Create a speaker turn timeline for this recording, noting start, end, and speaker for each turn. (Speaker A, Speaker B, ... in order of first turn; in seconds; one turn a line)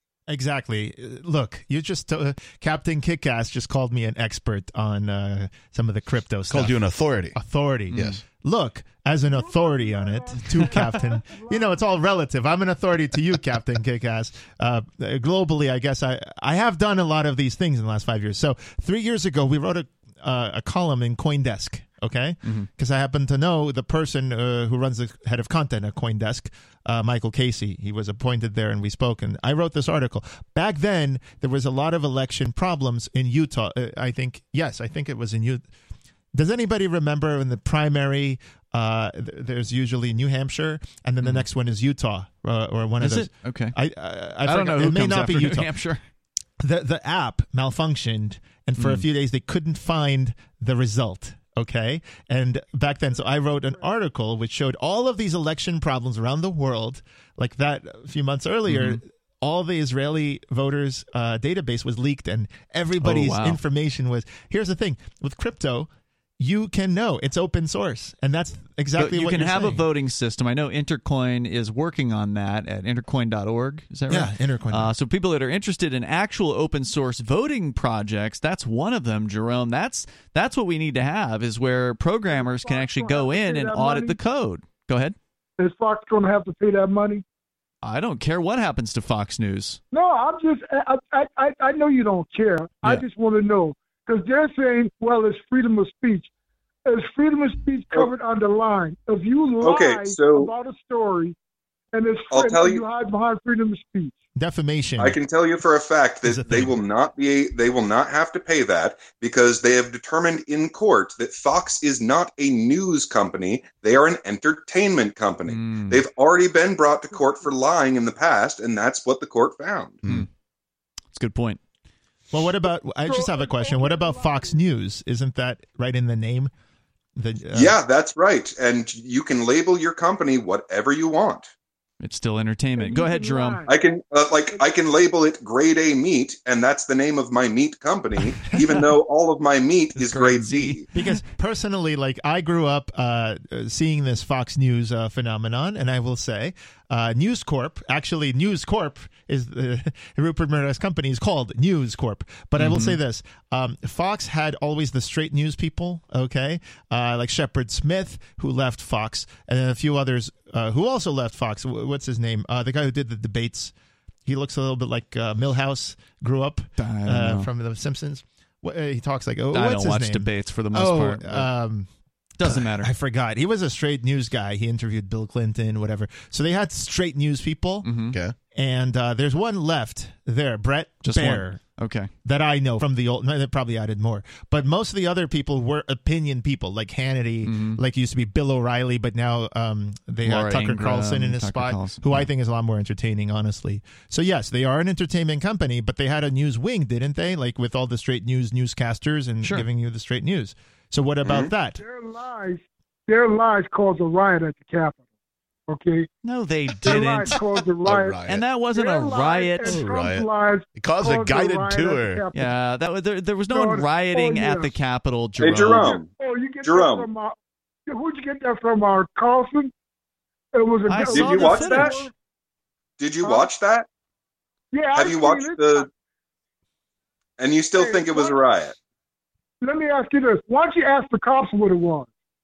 Speaker A: 0.3-6.8
Speaker B: 6.5-7.4
Speaker A: 7.4-35.6
Speaker C: 7.9-8.2
Speaker B: 7.9-8.2
Speaker D: 9.3-11.8
Speaker C: 22.4-22.7
Speaker A: 36.4-45.8
Speaker C: 43.0-43.7
Speaker C: 44.5-46.0
Speaker A: 46.6-69.8
Speaker C: 48.8-49.1
Speaker C: 58.7-59.0
Speaker C: 63.0-63.6
Speaker C: 69.0-85.2
Speaker A: 74.1-74.9
Speaker D: 82.3-84.2
Speaker D: 85.6-87.2
Speaker C: 87.8-89.8
Speaker D: 89.9-96.3
Speaker D: 96.9-101.4
Speaker E: 99.6-100.5
Speaker D: 101.9-104.2
Speaker E: 102.3-102.8
Speaker A: 104.4-105.2
Speaker E: 105.0-120.0
Speaker A: 106.2-106.8
Speaker C: 115.5-116.0
Speaker D: 117.1-117.5
Speaker C: 121.1-121.6
Speaker A: 122.3-126.5
Speaker D: 123.1-124.6
Speaker A: 127.2-127.8
Speaker E: 127.5-131.5
Speaker C: 132.0-133.6
Speaker D: 132.8-133.7
Speaker E: 133.7-140.9
Speaker C: 139.9-140.8
Speaker A: 140.9-163.7
Speaker C: 152.6-153.0
Speaker A: 164.3-171.9
Speaker C: 166.8-167.5
Speaker C: 169.5-171.5
Speaker C: 172.4-172.9
Speaker A: 172.4-177.9
Speaker C: 177.8-178.2
Speaker A: 178.6-181.6
Speaker C: 181.0-182.1
Speaker A: 182.2-201.8
Speaker C: 187.4-187.8
Speaker C: 190.2-192.3
Speaker E: 201.2-201.5
Speaker D: 201.8-205.0
Speaker D: 205.7-206.1
Speaker C: 206.2-207.4
Speaker D: 206.8-212.5
Speaker B: 206.9-207.1
Speaker B: 207.8-208.4
Speaker C: 208.3-209.9
Speaker B: 209.7-212.2
Speaker C: 212.3-216.0
Speaker D: 213.5-214.7
Speaker E: 215.4-216.1
Speaker D: 215.7-217.3
Speaker E: 216.6-217.1
Speaker D: 217.9-219.7
Speaker D: 220.5-222.1
Speaker C: 220.9-222.1
Speaker E: 221.1-222.0
Speaker E: 223.0-223.9
Speaker D: 223.2-223.5
Speaker D: 224.7-225.9
Speaker E: 224.9-225.9
Speaker E: 227.4-228.8
Speaker D: 227.7-228.4
Speaker D: 229.6-232.1